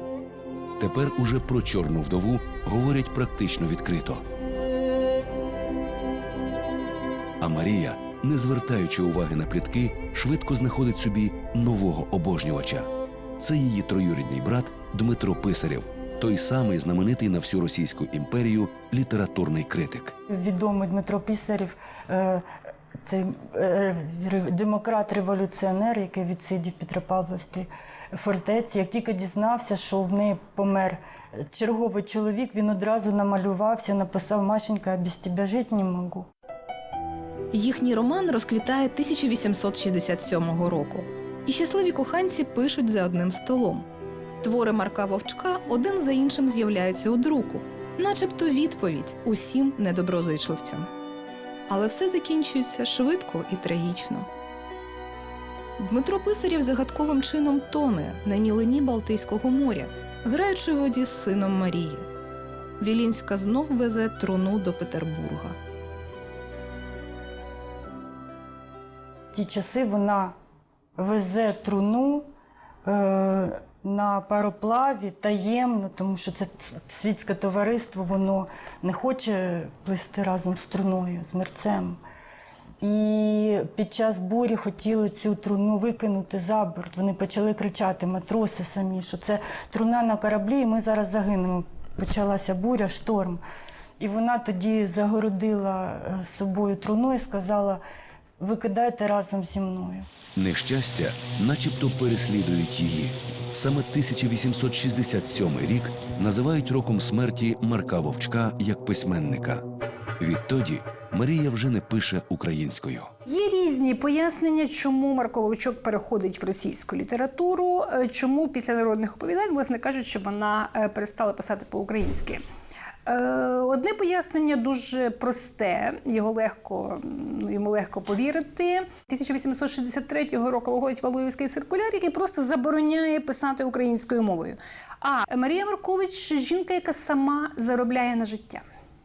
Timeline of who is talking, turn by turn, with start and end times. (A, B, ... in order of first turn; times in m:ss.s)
0:00.8-0:04.2 A
0:07.4-0:20.1 A
0:20.3-0:36.3 B
0:37.5-0:43.8 C
0:44.4-0:50.9 C
0:51.7-0:54.3 C
0:55.8-1:02.1 C
1:02.8-1:05.6 C
1:09.3-1:10.3 B
1:11.0-1:12.2 B
1:12.8-1:22.0 B
1:22.8-1:33.4 B
1:34.0-1:37.8 B
1:38.4-1:40.1 B
1:40.4-1:49.6 A
1:50.2-1:53.1 A
1:53.2-2:02.4 D
2:03.0-2:18.6 D